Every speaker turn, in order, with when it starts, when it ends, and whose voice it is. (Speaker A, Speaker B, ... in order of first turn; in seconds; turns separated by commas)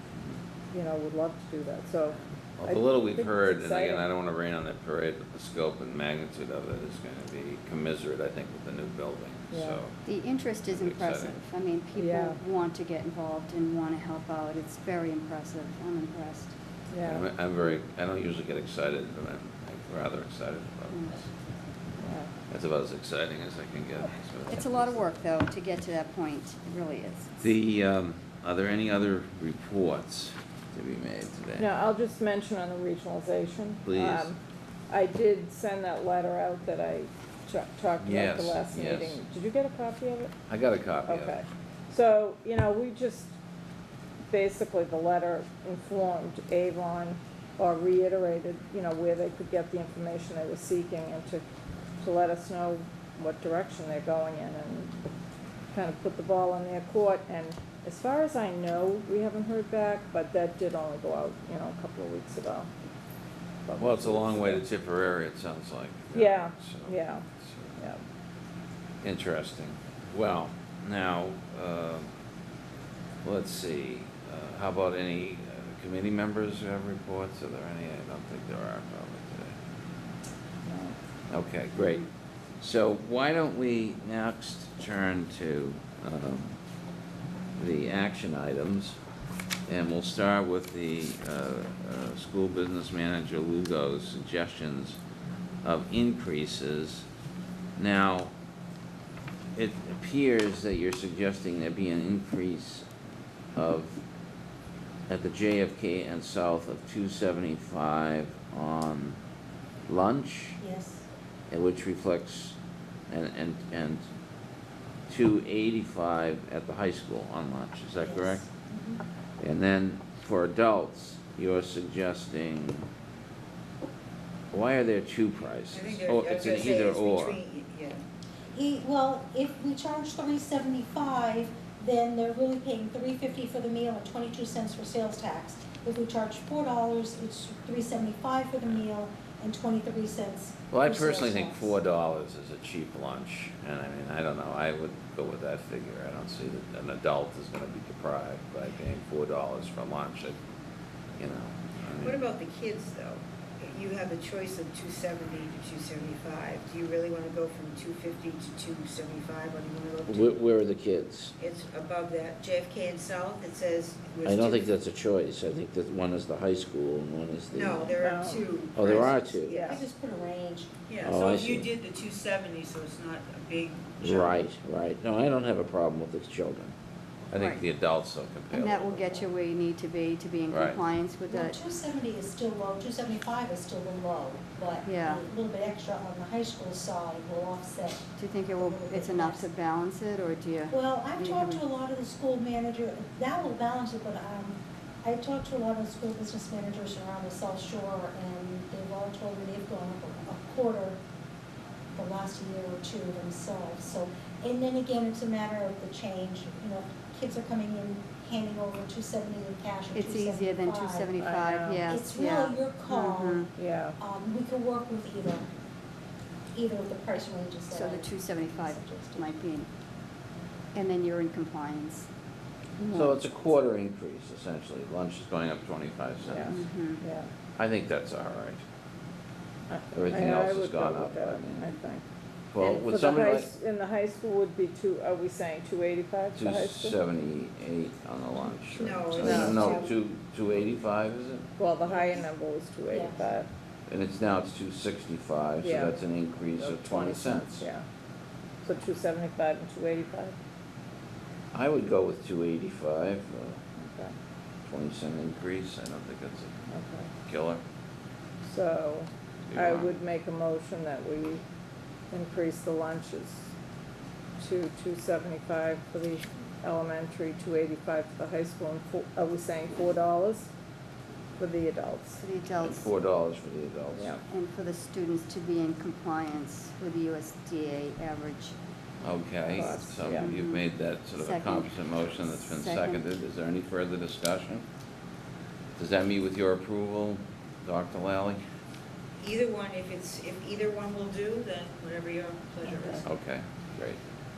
Speaker A: 0.7-4.1, Speaker B: 2.6-10.0, Speaker A: 9.5-9.8, Speaker C: 10.0-16.5, Speaker B: 10.6-11.4, Speaker A: 11.9-12.4, Speaker A: 16.9-17.7, Speaker B: 17.0-21.3, Speaker A: 22.0-22.3, Speaker B: 22.5-25.0, Speaker C: 24.5-27.3, Speaker B: 27.4-31.7, Speaker A: 31.6-34.4, Speaker B: 33.8-34.3, Speaker A: 34.9-40.3, Speaker B: 38.0-39.2, Speaker B: 40.5-41.4, Speaker A: 41.0-43.3, Speaker A: 44.3-51.4, Speaker A: 52.0-55.0, Speaker A: 55.7-62.7, Speaker A: 63.6-64.6, Speaker B: 63.8-67.7, Speaker A: 66.1-67.3, Speaker B: 69.0-72.1, Speaker B: 73.2-79.5, Speaker A: 80.7-81.0, Speaker B: 81.3-82.1, Speaker B: 82.6-86.6, Speaker B: 87.6-89.0, Speaker B: 89.7-95.0, Speaker B: 95.6-97.0, Speaker B: 97.8-98.3, Speaker B: 99.5-102.9, Speaker B: 103.5-104.0, Speaker B: 105.1-109.2, Speaker B: 109.9-110.6, Speaker D: 110.6-111.0, Speaker B: 111.5-112.6, Speaker B: 113.1-114.0, Speaker B: 115.1-118.5, Speaker D: 118.0-119.0, Speaker B: 119.4-122.9, Speaker B: 124.5-127.4, Speaker E: 125.7-128.0, Speaker D: 128.5-141.7, Speaker B: 140.7-150.4, Speaker B: 151.2-152.3, Speaker E: 152.0-160.4, Speaker B: 160.1-161.3, Speaker E: 161.4-164.7, Speaker B: 164.2-168.0, Speaker E: 167.5-169.8, Speaker A: 168.0-168.4, Speaker B: 168.7-169.7, Speaker A: 169.5-169.8, Speaker D: 169.6-170.9, Speaker E: 170.9-174.4, Speaker B: 171.0-171.7, Speaker B: 174.0-176.7, Speaker B: 177.3-179.2, Speaker C: 177.3-177.6, Speaker C: 178.5-181.6, Speaker B: 180.5-180.8, Speaker D: 181.3-189.5, Speaker C: 184.8-185.2, Speaker C: 188.2-191.6, Speaker D: 190.7-201.0, Speaker D: 201.9-211.1, Speaker C: 209.9-213.5, Speaker A: 211.2-211.8, Speaker D: 211.8-215.4, Speaker A: 213.6-214.0, Speaker D: 216.5-219.3, Speaker C: 217.7-219.7, Speaker C: 220.7-222.1, Speaker C: 222.8-223.3, Speaker B: 222.9-226.6, Speaker A: 226.2-227.3, Speaker C: 226.4-227.0, Speaker B: 227.6-228.6, Speaker A: 229.7-232.0, Speaker B: 229.9-231.7, Speaker B: 232.5-233.5, Speaker A: 232.6-237.0, Speaker B: 236.3-241.5, Speaker E: 238.7-239.9, Speaker A: 239.2-239.8, Speaker D: 239.3-239.8, Speaker A: 241.6-243.5, Speaker D: 241.9-242.2, Speaker D: 242.9-243.2, Speaker B: 243.9-247.7, Speaker A: 245.6-245.9, Speaker A: 246.6-247.8, Speaker A: 248.6-250.3, Speaker B: 251.5-253.6, Speaker A: 253.8-254.1, Speaker B: 254.7-256.5, Speaker A: 256.7-257.1, Speaker B: 257.2-257.6, Speaker A: 258.4-261.4, Speaker B: 259.5-259.9, Speaker A: 262.1-263.5, Speaker A: 264.4-270.5, Speaker A: 271.4-272.2, Speaker C: 272.2-272.9, Speaker B: 272.6-274.2, Speaker A: 273.9-274.2, Speaker C: 274.3-278.6, Speaker B: 279.0-284.6, Speaker A: 279.5-280.3, Speaker C: 279.5-283.0, Speaker B: 285.8-288.4, Speaker E: 289.2-293.1, Speaker C: 292.6-293.0, Speaker B: 293.0-294.0